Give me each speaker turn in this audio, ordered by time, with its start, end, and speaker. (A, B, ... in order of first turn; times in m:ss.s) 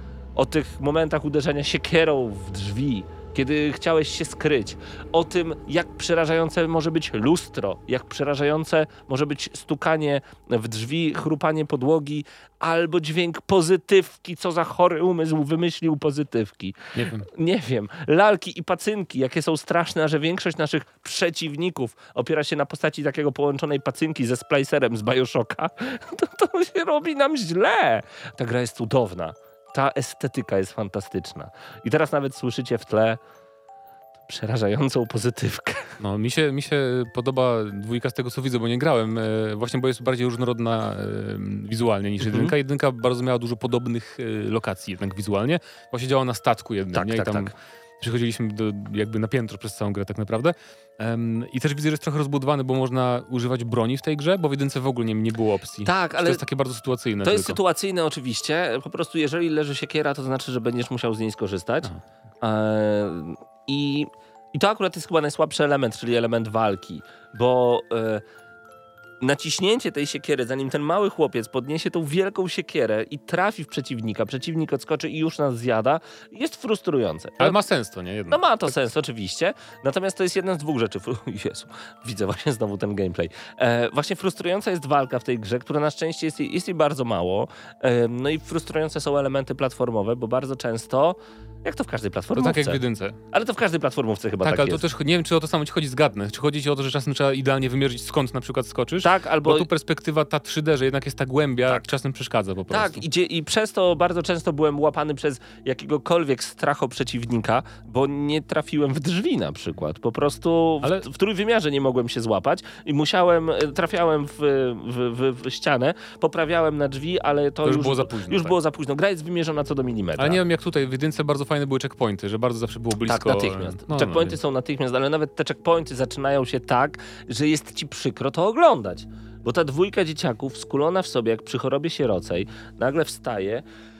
0:00.4-0:33.2 A
0:17.0-0:17.3 B
0:34.3-0:36.0 A
0:36.0-0:57.6 B
0:42.2-0:42.5 A
0:46.9-0:47.5 A
0:55.8-0:56.4 A
0:57.2-1:01.9 A
1:02.4-1:08.2 A
1:09.2-1:17.6 A
1:17.4-1:18.7 B
1:18.3-1:32.8 A
1:32.4-1:33.2 B
1:33.3-1:34.8 A
1:34.4-1:43.0 B
1:39.0-1:39.7 A
1:42.7-2:00.4 A
1:57.6-1:58.6 B
2:00.2-2:04.4 B
2:03.1-2:13.6 A